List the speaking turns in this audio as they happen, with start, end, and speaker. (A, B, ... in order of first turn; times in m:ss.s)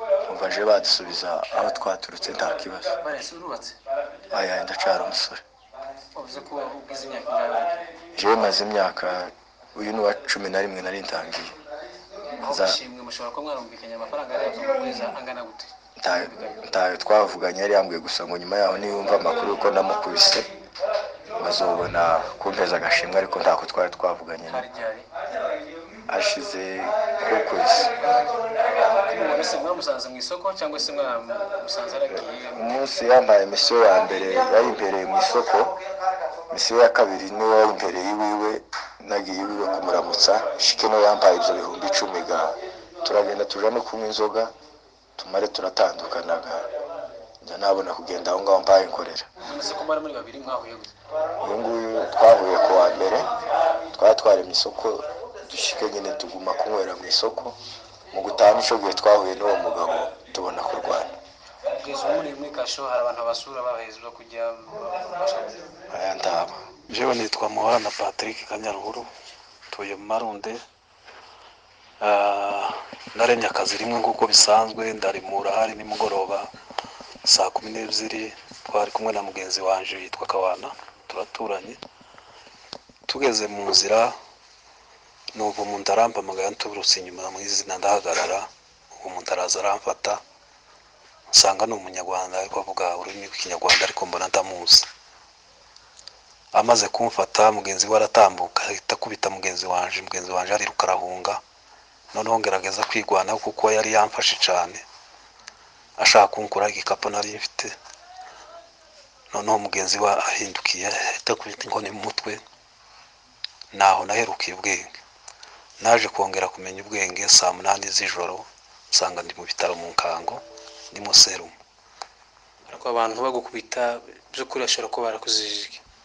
0:00.2-0:03.0 A
0:03.0-0:03.8 B
0:04.3-0:05.4 A
0:06.1-0:07.8 B
0:08.2-0:11.6 A
0:12.4-0:16.6 B
0:12.5-0:12.8 A
0:16.0-0:20.5 A
0:21.4-0:24.6 A
0:24.4-0:25.1 B
0:26.1-0:27.9 A
0:28.1-0:32.6 B
0:32.1-0:35.8 A
0:36.5-0:44.5 A
0:45.2-0:46.7 A
0:47.4-0:49.3 A
0:49.4-0:50.9 B
0:51.4-0:53.3 A
0:53.9-0:57.6 A
0:58.1-1:01.1 A
1:01.7-1:05.7 B
1:05.9-1:06.6 A
1:06.9-1:09.1 C
1:09.7-1:10.6 C
1:12.0-1:16.5 C
1:17.3-1:21.8 C
1:23.1-1:24.2 C
1:25.4-1:30.2 C
1:31.3-1:34.9 C
1:36.5-1:41.4 C
1:42.1-1:44.8 C
1:46.0-1:47.7 C
1:49.3-1:52.4 C
1:53.7-1:55.0 C
1:55.8-2:01.6 C
2:02.7-2:05.8 B